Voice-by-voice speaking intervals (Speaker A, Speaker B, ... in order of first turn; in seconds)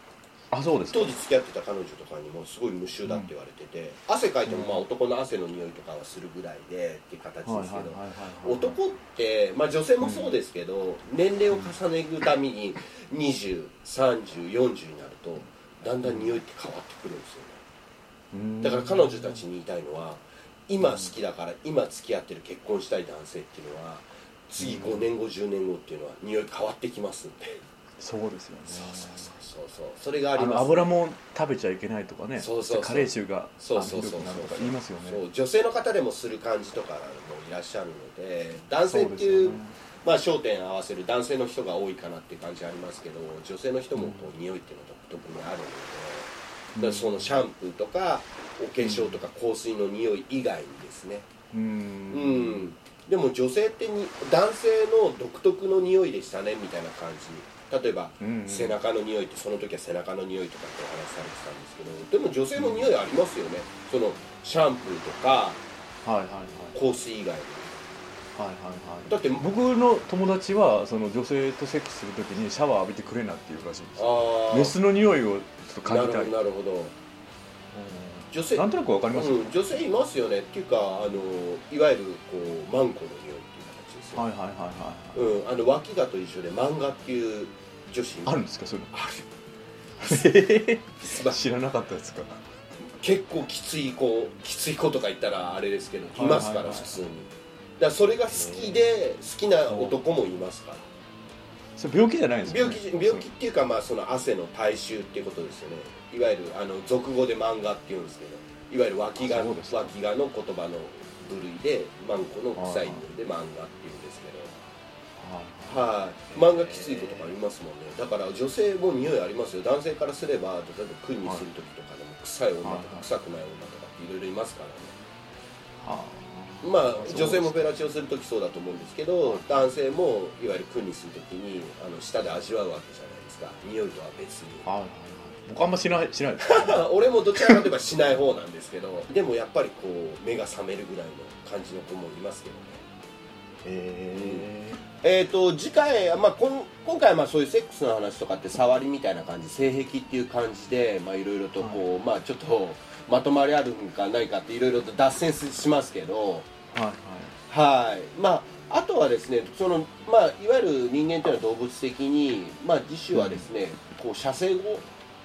Speaker A: 0.5-1.1, 4.5-4.8, 7.4-8.8, 10.0-10.4, 16.0-16.4, 18.3-19.4, 20.8-21.1, 24.6-25.1, 28.0-29.3, 30.4-35.2, 38.9-39.7, 44.0-44.3, 46.7-47.4, 48.8-49.2, 51.5-52.7, 58.2-58.8, 62.6-62.9, 66.0-66.8, 68.3-76.3, 77.7-79.6, 84.2-85.2, 88.2-89.0, 90.0-92.4, 96.1-97.0, 98.3-98.8, 99.7-100.0, 101.8-103.3, 109.2-109.9, 112.6-113.0, 115.2-117.3, 122.6-123.1, 125.8-127.8, 134.6-137.7, 144.1-144.8, 156.7-157.3, 163.1-163.5
Speaker B: 0.9-17.6, 18.6-27.6, 28.7-30.9, 32.4-51.3, 52.1-65.6, 66.7-67.8, 69.1-69.4, 74.0-74.7, 75.8-76.9, 78.3-84.2, 85.1-88.3, 88.9-89.2, 90.0-90.3, 91.0-91.4, 93.0-100.9, 102.5-114.5, 115.7-125.0, 126.6-134.7, 136.4-142.8, 143.6-144.5, 145.0-156.5, 157.5-164.9